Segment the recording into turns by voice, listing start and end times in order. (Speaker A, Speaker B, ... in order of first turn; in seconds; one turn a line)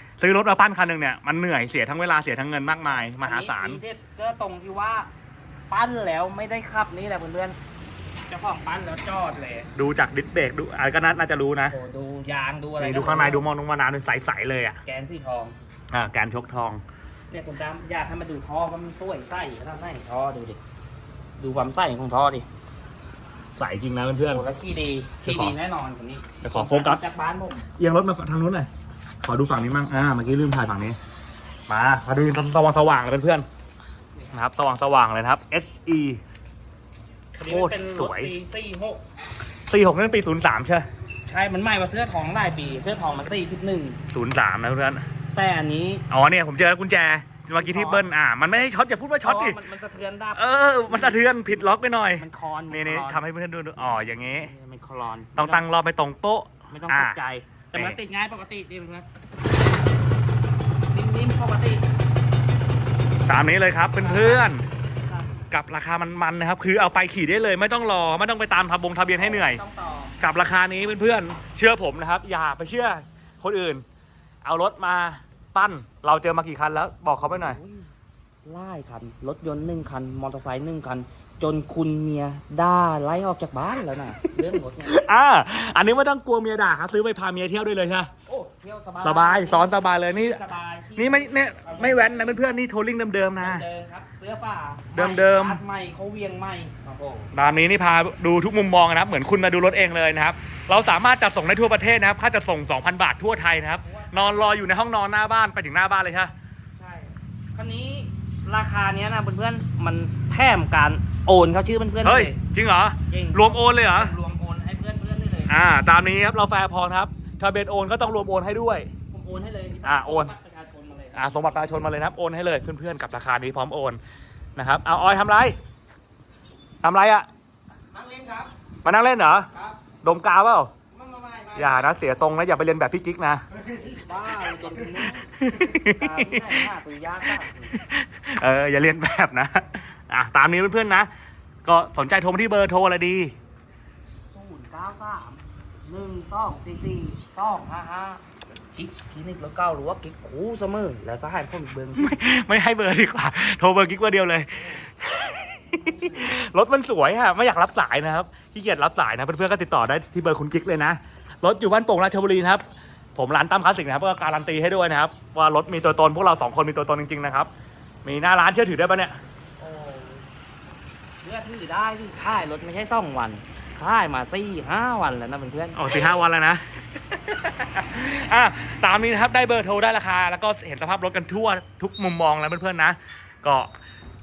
Speaker A: 0.2-3.8
Speaker B: 3.0-5.1
Speaker B: 5.7-7.6
Speaker B: 8.3-9.7
Speaker A: 9.7-11.7
Speaker B: 11.7-13.5
Speaker A: 12.8-14.8
Speaker B: 14.8-15.6
Speaker A: 15.9-16.8
Speaker B: 17.3-20.6
Speaker B: 21.4-22.4
Speaker A: 23.5-24.4
Speaker B: 24.3-27.7
Speaker A: 25.2-25.5
Speaker A: 26.4-27.0
Speaker A: 27.8-28.7
Speaker A: 29.2-31.0
Speaker A: 31.7-33.5
Speaker A: 34.3-36.2
Speaker B: 37.3-39.0
Speaker A: 37.4-38.3
Speaker A: 39.7-40.9
Speaker B: 41.2-44.0
Speaker A: 44.1-45.0
Speaker B: 45.3-46.0
Speaker A: 46.1-49.6
Speaker B: 47.6-48.0
Speaker B: 49.2-53.2
Speaker A: 50.3-54.5
Speaker B: 53.8-55.6
Speaker A: 55.4-57.2
Speaker B: 56.7-59.0
Speaker B: 60.9-61.8
Speaker A: 63.2-64.6
Speaker B: 64.0-64.5
Speaker B: 65.1-65.3
Speaker A: 65.5-69.6
Speaker B: 69.2-70.2
Speaker A: 70.2-73.8
Speaker A: 74.4-77.6
Speaker B: 77.2-77.9
Speaker B: 78.4-85.0
Speaker A: 84.8-88.1
Speaker B: 88.3-92.6
Speaker A: 89.0-90.4
Speaker A: 91.0-93.6
Speaker B: 93.4-97.3
Speaker A: 94.9-95.6
Speaker A: 97.3-106.3
Speaker B: 103.8-104.6
Speaker B: 106.8-112.4
Speaker A: 112.0-114.1
Speaker B: 113.1-115.5
Speaker A: 115.5-118.9
Speaker B: 119.1-121.9
Speaker A: 119.8-120.3
Speaker A: 121.1-124.0
Speaker A: 124.5-125.6
Speaker A: 126.8-127.3
Speaker A: 128.8-129.5
Speaker A: 130.0-130.7
Speaker A: 131.5-133.4
Speaker B: 133.8-137.8
Speaker A: 135.4-136.7
Speaker A: 137.7-141.1
Speaker A: 141.6-143.3
Speaker B: 144.3-148.2
Speaker B: 148.7-152.2
Speaker A: 151.9-162.6
Speaker B: 155.7-156.3
Speaker A: 163.1-167.5
Speaker A: 168.0-169.2
Speaker B: 169.6-170.2
Speaker B: 171.2-175.8
Speaker A: 175.7-183.7